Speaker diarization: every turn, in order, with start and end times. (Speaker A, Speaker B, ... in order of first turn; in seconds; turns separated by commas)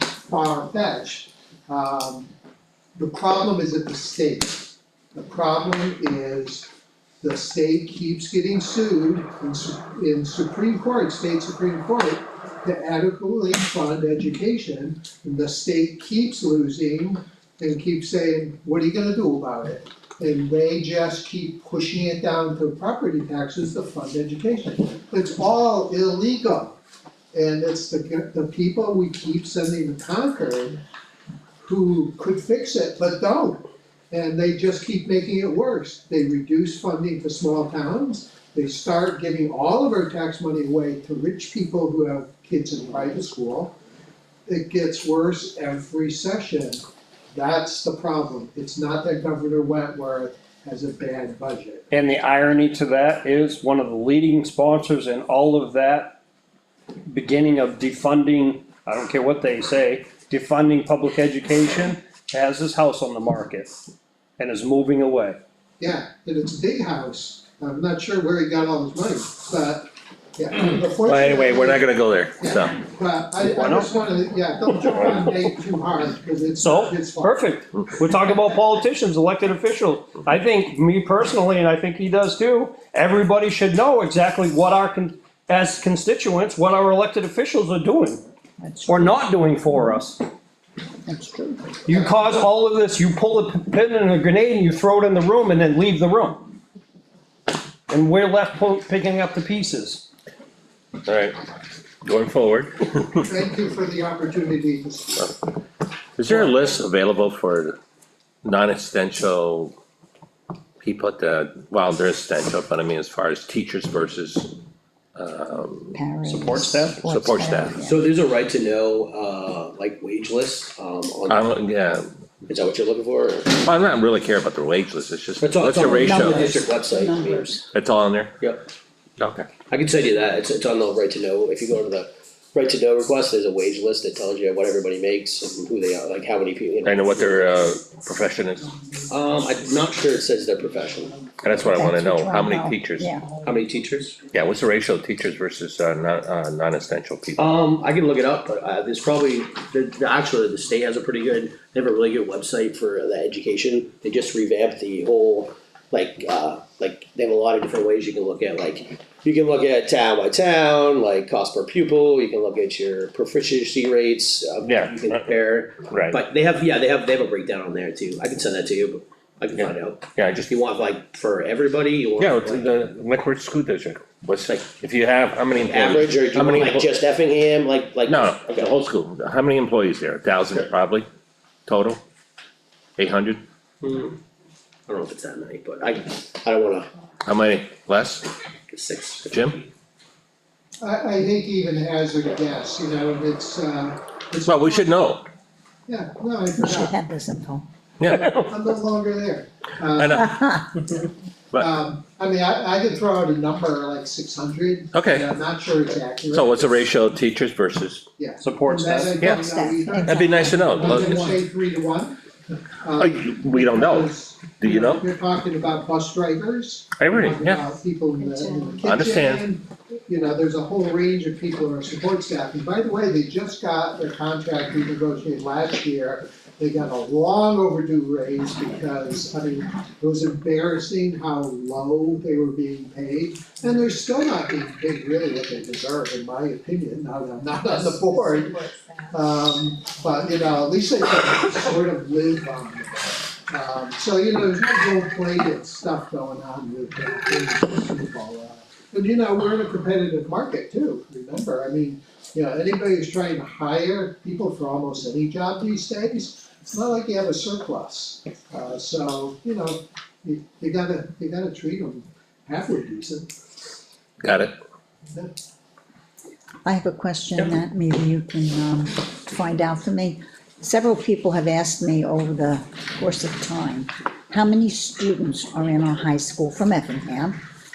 Speaker A: 0.2-2.3, Speaker A: 3.0-6.7, Speaker A: 7.2-26.8, Speaker A: 27.3-30.8, Speaker A: 31.6-43.8, Speaker A: 44.5-51.9, Speaker B: 51.9-56.2, Speaker B: 57.1-63.8, Speaker B: 64.4-65.4, Speaker A: 65.8-77.6, Speaker C: 71.0-72.8, Speaker B: 73.5-73.9, Speaker B: 76.6-88.2, Speaker D: 88.6-90.1, Speaker B: 88.9-90.2, Speaker D: 91.1-91.8, Speaker B: 91.9-96.5, Speaker B: 97.9-100.0, Speaker C: 101.0-101.4, Speaker C: 102.0-103.3, Speaker A: 103.2-105.4, Speaker C: 106.2-107.8, Speaker C: 108.4-109.8, Speaker C: 110.8-114.5, Speaker C: 115.2-116.0, Speaker D: 115.9-118.1, Speaker B: 116.3-117.0, Speaker C: 117.0-117.8, Speaker E: 117.8-121.5, Speaker C: 121.3-122.1, Speaker E: 122.5-123.6, Speaker C: 123.6-126.5, Speaker E: 125.4-127.5, Speaker D: 125.9-127.7, Speaker C: 127.7-128.4, Speaker C: 129.2-129.5, Speaker E: 129.7-137.8, Speaker C: 136.8-138.7, Speaker E: 139.1-141.2, Speaker C: 141.4-143.1, Speaker D: 141.7-143.3, Speaker E: 143.4-144.2, Speaker C: 144.3-147.6, Speaker E: 147.4-172.7, Speaker C: 164.6-165.3, Speaker C: 165.9-166.2, Speaker C: 169.6-170.5, Speaker C: 172.2-177.1, Speaker E: 175.6-178.7, Speaker C: 178.1-181.1, Speaker C: 181.7-182.0, Speaker C: 183.0-183.4, Speaker E: 183.8-184.2, Speaker E: 184.9-186.9, Speaker C: 187.2-188.3, Speaker E: 188.7-189.6, Speaker C: 189.3-189.6, Speaker A: 190.8-194.9, Speaker C: 194.4-195.2, Speaker A: 195.9-196.9, Speaker D: 196.6-197.7, Speaker C: 198.0-198.4, Speaker A: 198.1-201.0, Speaker B: 198.1-198.4, Speaker C: 200.0-200.3, Speaker A: 201.5-206.9, Speaker C: 204.9-205.3, Speaker C: 206.3-208.1, Speaker A: 208.2-212.2, Speaker B: 208.4-209.2, Speaker C: 209.2-209.5, Speaker D: 209.3-210.9, Speaker C: 210.1-211.4, Speaker A: 212.8-263.3, Speaker C: 213.0-215.0, Speaker C: 217.0-217.7, Speaker C: 218.8-219.4, Speaker C: 264.2-264.5, Speaker D: 266.6-277.4